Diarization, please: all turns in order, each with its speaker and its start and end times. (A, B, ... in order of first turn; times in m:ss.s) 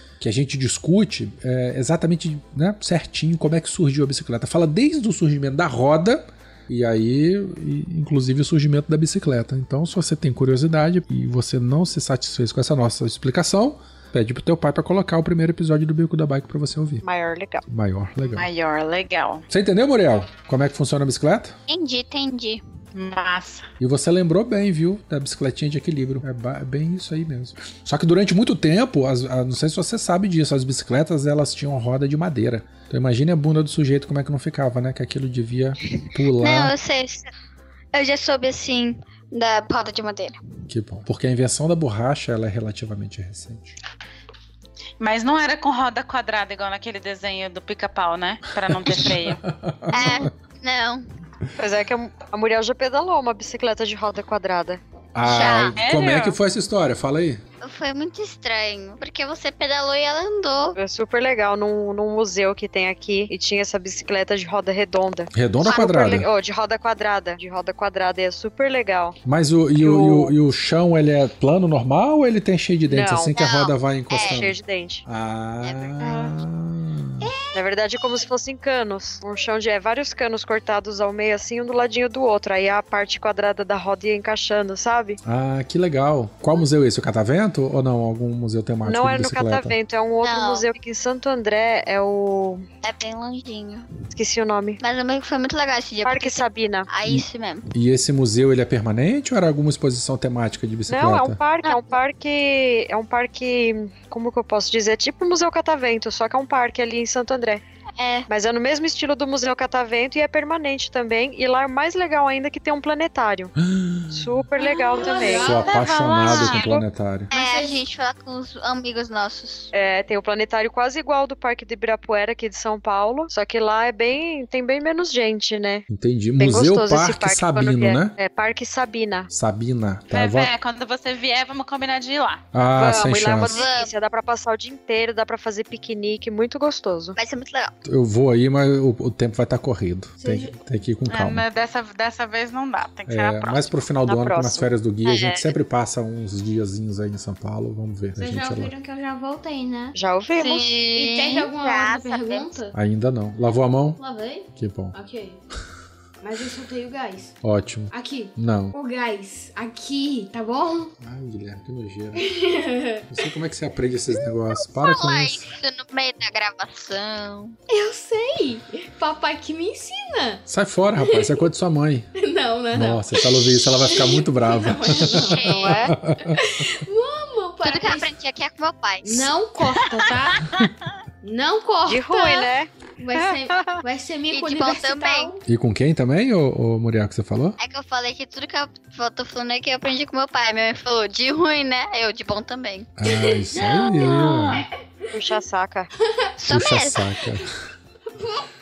0:00.2-0:17.0 A
0:17.0-0:17.6 B
0:17.7-0:18.5 A
0:18.4-0:19.4 C
0:19.5-0:21.6 A
0:21.7-0:22.6 D
0:22.9-0:23.7 C
0:23.8-0:36.7 A
0:35.9-0:37.3 D
0:37.9-0:40.4 D
0:40.7-0:43.8 A
0:45.0-0:49.4 C
0:48.6-0:50.3 A
0:49.9-0:51.0 D
0:51.6-0:54.8 B
0:55.1-0:57.4 A
0:55.2-0:55.8 D
0:55.8-0:56.4 C
0:57.6-1:00.8 D
1:00.8-1:09.2 B
1:05.3-1:06.3 A
1:05.6-1:05.9 D
1:09.2-1:17.3 A
1:09.8-1:10.3 B
1:12.9-1:13.3 B
1:13.4-1:14.4 D
1:14.1-1:15.0 B
1:15.6-1:16.0 D
1:16.0-1:16.3 B
1:17.5-1:25.2 B
1:25.2-1:29.8 A
1:28.8-1:32.6 B
1:30.2-1:30.7 D
1:32.8-1:33.8 D
1:34.1-1:34.8 B
1:34.8-1:37.7 D
1:36.0-1:36.9 B
1:37.0-1:41.4 A
1:40.9-1:47.6 B
1:41.6-1:41.9 D
1:48.0-1:48.3 D
1:48.3-1:53.5 B
1:53.6-1:54.4 A
1:54.1-1:56.8 B
1:54.6-1:55.8 E
1:55.3-1:57.3 A
1:55.8-1:56.7 C
1:56.3-1:56.6 D
1:57.3-1:59.7 D
1:57.3-1:57.8 E
1:59.7-2:05.8 B
2:05.9-2:08.1 A
2:06.4-2:09.3 B
2:09.3-2:10.5 A
2:10.1-2:12.4 C
2:12.5-2:13.6 A
2:12.7-2:17.2 B
2:13.4-2:13.9 D
2:17.2-2:17.7 D
2:17.8-2:21.4 A
2:20.2-2:20.6 E
2:21.1-2:23.7 C
2:23.1-2:28.7 A
2:24.1-2:24.7 B
2:28.2-2:30.0 E
2:29.9-2:30.8 B
2:30.4-2:32.5 D
2:30.9-2:32.7 E
2:32.7-2:34.0 A
2:34.0-2:35.4 E
2:34.5-2:34.9 A
2:36.2-2:37.4 E
2:37.4-2:38.7 A
2:37.9-2:40.9 E
2:41.0-2:42.3 A
2:42.2-2:43.2 E
2:43.1-2:45.5 A
2:44.5-2:47.5 D
2:47.7-2:50.4 E
2:50.5-2:52.1 A
2:51.0-2:51.4 E
2:52.2-2:55.5 E
2:52.7-2:56.5 A
2:55.0-2:55.9 D
2:55.5-2:55.9 B
2:56.3-2:58.1 E
2:57.6-2:59.3 D
2:59.0-3:00.4 E
3:01.2-3:05.4 E
3:01.8-3:03.8 B
3:04.3-3:05.3 D
3:05.4-3:07.6 A
3:07.6-3:12.9 D
3:13.0-3:14.6 A
3:13.1-3:15.1 E
3:15.1-3:15.9 B
3:16.0-3:16.3 E
3:16.4-3:17.1 D
3:16.5-3:17.5 A
3:18.1-3:18.5 E